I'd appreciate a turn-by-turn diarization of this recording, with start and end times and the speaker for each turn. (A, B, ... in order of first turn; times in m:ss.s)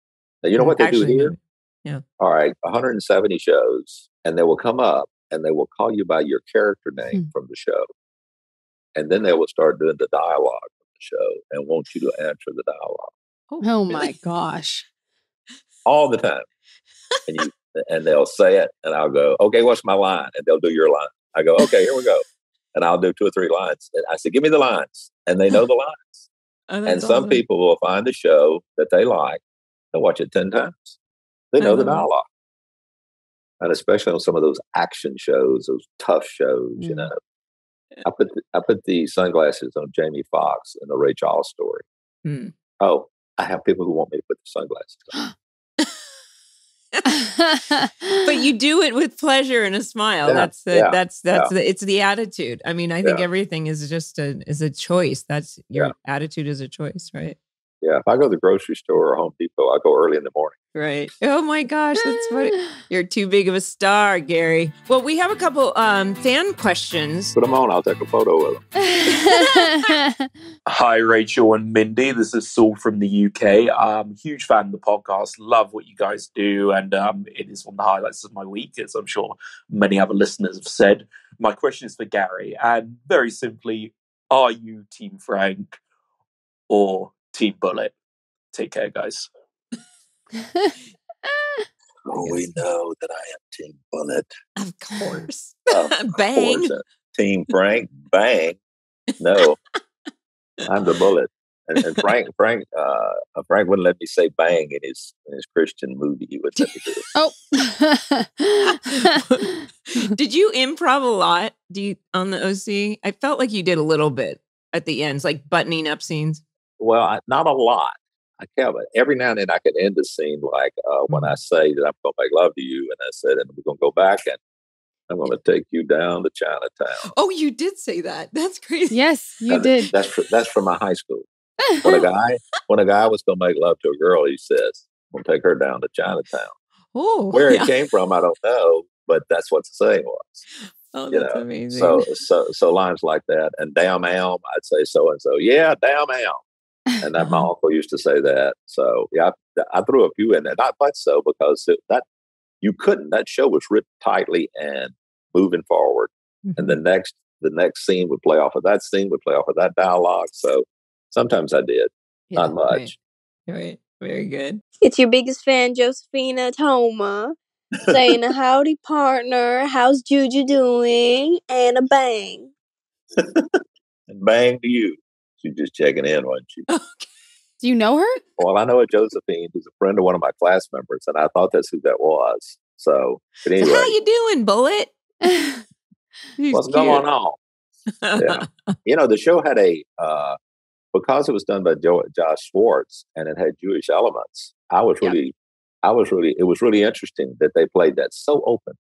0:00.4-0:01.3 A
0:00.6-0:02.0 B
0:02.2-0:07.9 A
0:08.9-0:13.1 A
0:13.5-0:14.1 B
0:13.6-0:14.8 C
0:15.9-0:16.4 A
0:17.3-0:26.3 A
0:26.7-0:27.4 B
0:26.9-0:29.4 A
0:29.9-0:31.0 A
0:31.5-0:32.2 A
0:31.6-0:32.1 B
0:33.6-0:37.2 A
0:36.8-0:37.1 C
0:38.0-0:41.8 A
0:42.2-0:42.5 B
0:42.8-0:45.1 A
0:47.1-0:48.3 C
0:48.2-0:57.4 B
0:50.2-0:51.5 A
0:57.8-1:00.6 A
1:00.7-1:07.3 B
1:07.3-1:08.7 A
1:08.8-1:10.0 C
1:09.1-1:09.9 B
1:10.7-1:25.8 D
1:26.7-1:27.9 D
1:28.5-1:29.3 D
1:30.4-1:30.7 C
1:32.0-1:34.3 A
1:32.2-1:32.5 B
1:34.6-1:36.7 B
1:35.7-1:38.6 A
1:39.2-1:39.6 A
1:40.6-1:47.0 A
1:41.8-1:42.0 B
1:46.6-1:47.1 B
1:47.1-1:49.4 C
1:48.7-1:56.4 B
1:56.8-2:04.4 A
2:01.1-2:01.4 B
2:05.1-2:07.1 A
2:07.1-2:09.0 B
2:08.9-2:09.9 C
2:09.5-2:11.3 A
2:11.7-2:12.0 C
2:11.8-2:16.5 A
2:16.9-2:17.7 B
2:17.3-2:20.4 A
2:20.9-2:22.1 B
2:21.1-2:26.4 A
2:27.0-2:32.0 A
2:27.2-2:27.5 B
2:32.6-2:42.9 A
2:36.4-2:36.8 B
2:42.3-2:42.9 B
2:43.5-2:44.6 B
2:44.8-2:47.3 E
2:47.9-2:52.5 E
2:53.2-2:56.6 A
2:56.7-2:57.1 B
2:57.6-2:58.2 C
2:58.4-3:03.9 A
3:03.6-3:04.9 B
3:05.2-3:05.6 C
3:06.4-3:07.0 B
3:06.5-3:07.4 A
3:08.0-3:08.5 B
3:08.2-3:10.4 A
3:10.9-3:18.8 A